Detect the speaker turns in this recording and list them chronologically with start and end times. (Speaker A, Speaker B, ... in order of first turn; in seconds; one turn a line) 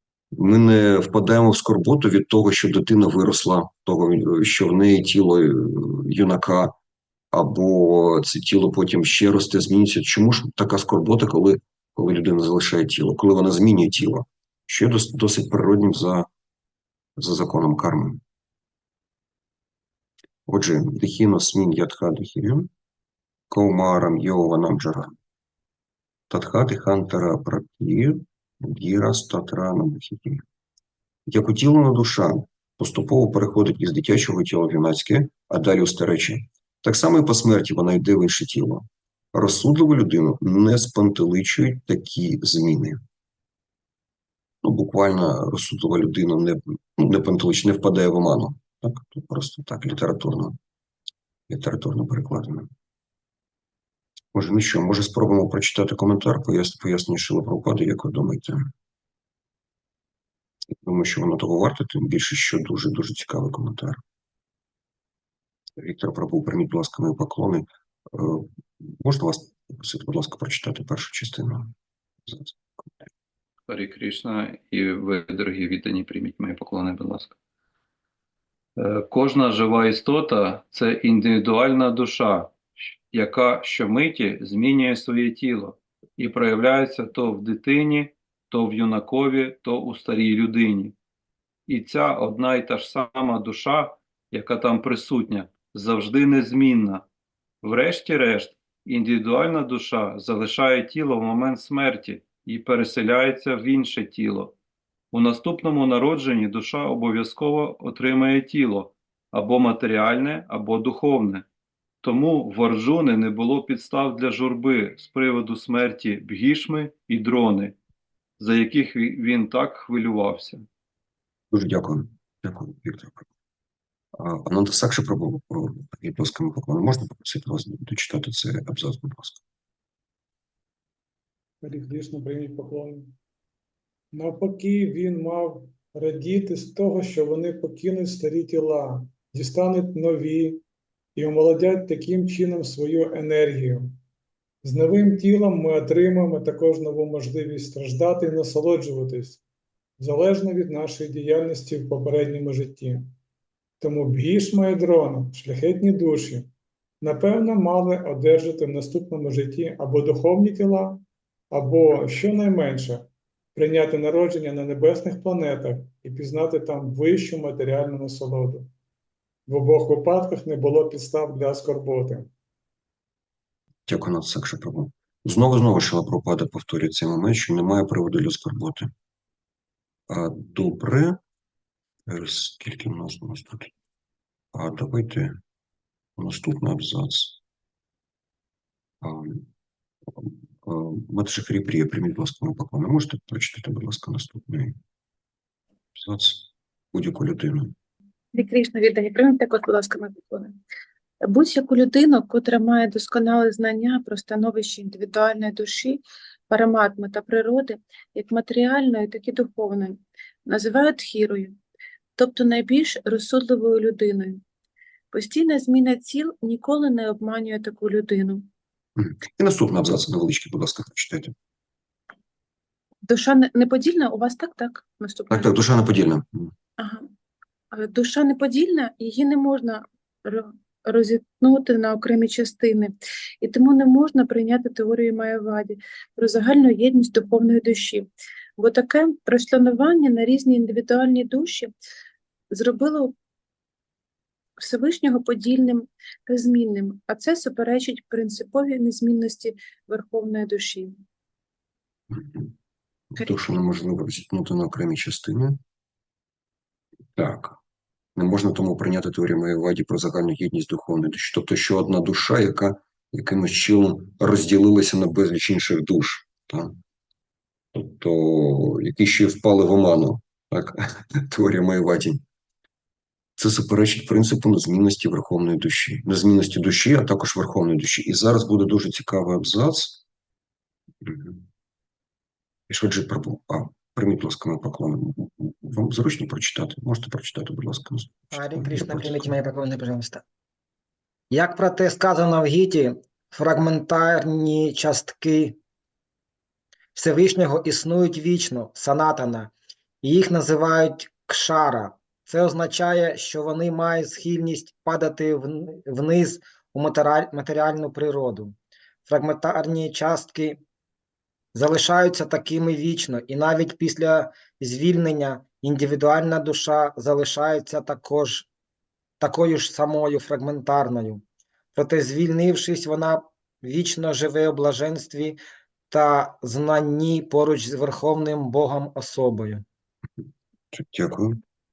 Speaker A: 0.3-6.7
Speaker A: 7.3-16.3
Speaker A: 17.2-18.2
Speaker A: 20.4-22.7
Speaker A: 23.5-25.1
Speaker A: 26.3-30.4
Speaker A: 31.3-43.0
Speaker A: 44.6-50.6
Speaker A: 51.5-52.7
Speaker A: 54.3-58.7
Speaker A: 60.8-64.0
Speaker A: 65.8-71.7
Speaker A: 72.3-72.5
Speaker B: 73.7-77.3
Speaker B: 78.8-82.6
Speaker B: 83.1-91.0
Speaker B: 91.7-97.0
Speaker B: 97.6-104.5
Speaker B: 105.1-111.5
Speaker B: 112.0-117.8
Speaker B: 118.4-120.7
Speaker A: 121.5-123.3
Speaker A: 124.2-129.4
Speaker C: 131.6-133.1
Speaker C: 134.1-140.6
Speaker C: 141.2-144.0
Speaker C: 144.6-149.4
Speaker C: 150.0-153.1
Speaker C: 153.8-156.5
Speaker C: 157.0-168.7
Speaker C: 169.5-172.3
Speaker A: 173.9-178.9
Speaker A: 180.1-181.2
Speaker A: 182.1-183.7
Speaker A: 184.5-185.4
Speaker A: 186.2-187.4
Speaker A: 189.0-189.5
Speaker A: 190.2-194.8
Speaker A: 196.0-197.7
Speaker D: 198.3-200.6
Speaker D: 201.2-211.6
Speaker D: 212.2-214.4
Speaker D: 215.1-218.5
Speaker A: 219.0-221.3
Speaker D: 223.1-225.5
Speaker A: 225.3-226.5
Speaker D: 226.8-227.1
Speaker D: 227.7-241.7
Speaker D: 242.5-243.1
Speaker D: 244.6-250.9
Speaker A: 252.1-252.5
Speaker A: 253.1-255.6
Speaker A: 257.1-257.6
Speaker A: 258.1-266.8
Speaker A: 267.7-272.2
Speaker A: 273.4-280.0
Speaker A: 281.0-281.4
Speaker A: 282.7-289.4
Speaker E: 288.3-290.2
Speaker E: 291.3-295.6
Speaker E: 296.9-310.6
Speaker E: 311.5-318.5
Speaker E: 319.2-321.2
Speaker E: 321.7-325.4
Speaker E: 325.9-329.6
Speaker A: 330.7-331.4